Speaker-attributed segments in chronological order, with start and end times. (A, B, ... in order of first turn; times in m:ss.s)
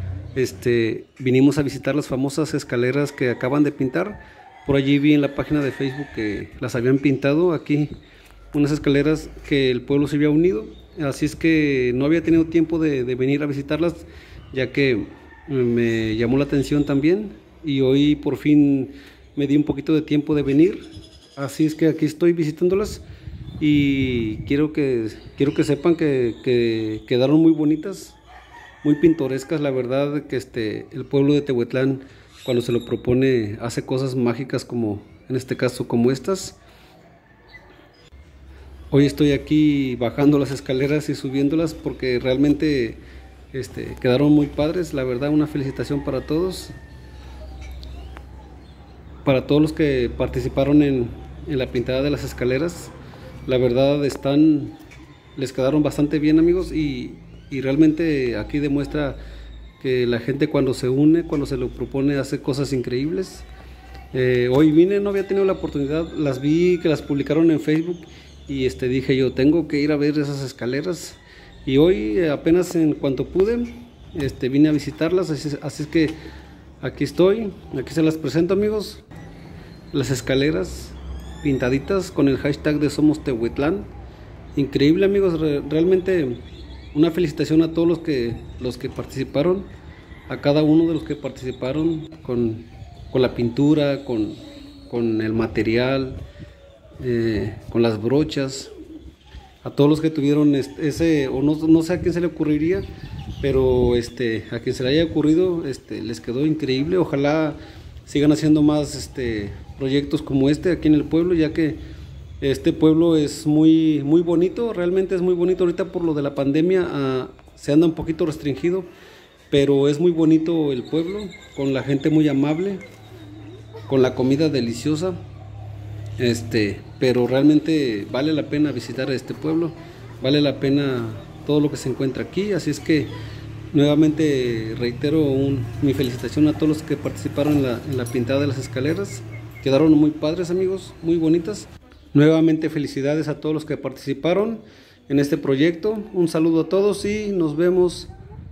0:00.4-0:07.9 A
0:08.5-0:20.8 A
0:21.4-0:23.0 A
0:23.6-0:28.2 A
0:28.8-0:36.6 A
0:38.9-0:43.0 A
0:43.5-0:46.7 A
0:49.2-0:52.9 A
0:53.5-0:54.8 A
0:55.4-0:59.2 A
0:59.8-1:03.5 A
1:04.1-1:16.2 A
1:16.8-1:19.0 A
1:19.9-1:23.9 A
1:24.6-1:29.7 A
1:30.3-1:36.2 A
1:37.0-1:38.7 A
1:39.6-1:42.8 A
1:43.4-1:51.8 A
1:52.4-1:58.9 A
1:59.5-2:02.8 A
2:03.9-2:05.2 A
2:06.2-2:13.2 A
2:13.7-2:28.1 A